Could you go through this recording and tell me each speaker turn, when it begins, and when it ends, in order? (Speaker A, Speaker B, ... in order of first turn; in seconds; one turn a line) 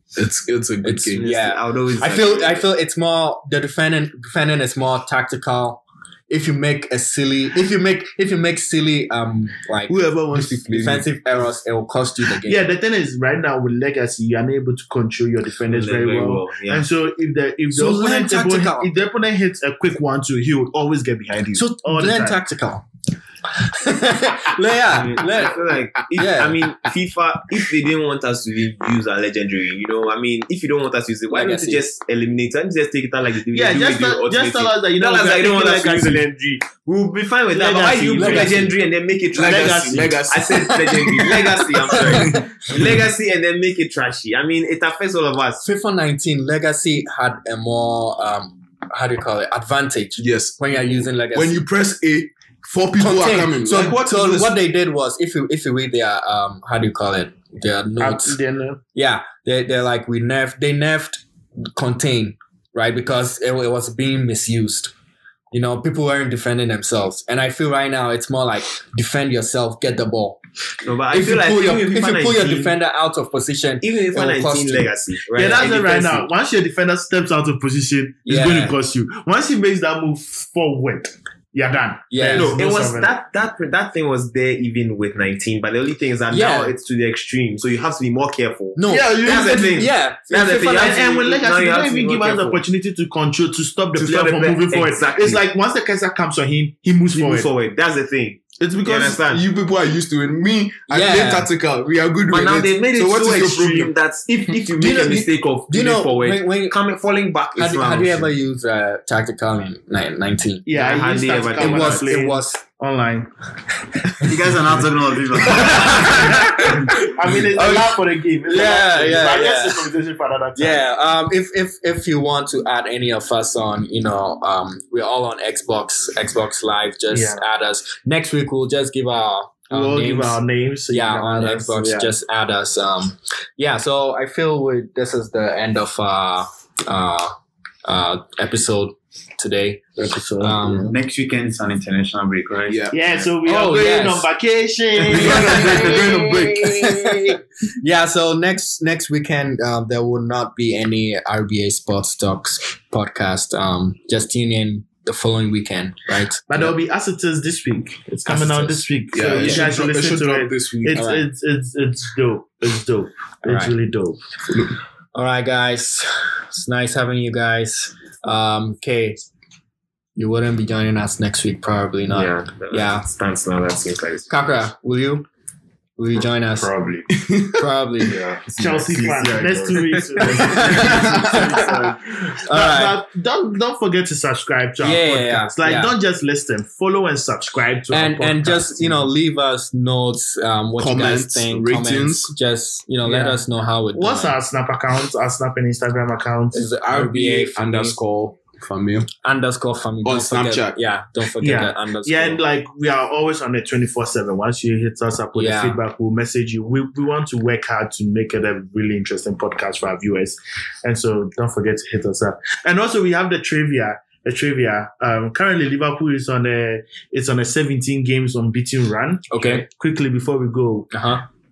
Speaker A: 0.1-1.3
Speaker B: 0.8-12.7
Speaker C: 1.2-2.6
Speaker A: 9.9-11.1
Speaker D: 12.4-22.4
Speaker C: 15.7-16.9
Speaker B: 17.7-18.9
Speaker B: 21.5-22.8
Speaker B: 23.6-26.8
Speaker C: 24.9-45.6
Speaker B: 31.3-31.9
Speaker D: 33.5-36.2
Speaker D: 37.5-38.6
Speaker B: 38.2-38.8
Speaker A: 39.3-41.4
Speaker D: 39.4-40.3
Speaker B: 41.9-42.4
Speaker B: 45.6-51.6
Speaker A: 50.2-54.5
Speaker B: 53.0-58.4
Speaker D: 58.0-58.8
Speaker B: 58.9-64.9
Speaker B: 65.5-70.4
Speaker C: 70.8-72.7
Speaker B: 71.1-74.9
Speaker C: 73.8-76.3
Speaker D: 75.3-83.1
Speaker B: 78.2-78.7
Speaker B: 82.1-82.6
Speaker C: 82.3-92.6
Speaker B: 86.3-86.7
Speaker B: 88.8-91.0
Speaker A: 88.9-89.9
Speaker D: 90.6-97.5
Speaker C: 94.0-95.4
Speaker C: 97.1-99.4
Speaker A: 98.8-103.9
Speaker B: 100.9-101.5
Speaker C: 102.3-108.3
Speaker A: 104.8-105.2
Speaker B: 104.8-106.8
Speaker B: 107.5-110.7
Speaker D: 110.7-113.3
Speaker C: 110.7-112.1
Speaker B: 111.5-112.6
Speaker E: 114.2-116.2
Speaker B: 115.5-119.9
Speaker D: 115.6-121.0
Speaker B: 120.5-141.0
Speaker D: 127.1-127.4
Speaker D: 129.7-132.1
Speaker D: 140.0-140.9
Speaker E: 140.9-142.9
Speaker A: 142.7-143.1
Speaker D: 142.9-147.4
Speaker B: 143.4-144.3
Speaker A: 145.1-146.9
Speaker B: 145.2-146.0
Speaker B: 146.6-156.8
Speaker D: 156.5-164.2
Speaker B: 158.2-159.7
Speaker A: 159.1-161.0
Speaker B: 160.9-161.2
Speaker B: 163.4-163.8
Speaker A: 164.5-164.7
Speaker B: 165.1-169.2
Speaker B: 170.2-173.1
Speaker C: 172.1-174.6
Speaker B: 174.3-175.2
Speaker B: 176.0-176.7
Speaker F: 176.2-177.3
Speaker A: 177.1-177.6
Speaker B: 177.6-178.2
Speaker F: 178.0-180.0
Speaker D: 178.6-189.1
Speaker E: 178.9-179.5
Speaker B: 180.2-181.7
Speaker A: 180.8-181.6
Speaker B: 182.4-183.0
Speaker B: 184.8-185.9
Speaker B: 187.9-194.4
Speaker A: 190.8-192.3
Speaker D: 193.0-193.4
Speaker D: 193.9-196.7
Speaker B: 196.5-198.0
Speaker A: 196.8-199.1
Speaker B: 199.2-202.4
Speaker A: 200.0-200.8
Speaker D: 201.4-220.9
Speaker B: 205.3-205.8
Speaker B: 219.3-219.6
Speaker B: 220.9-221.2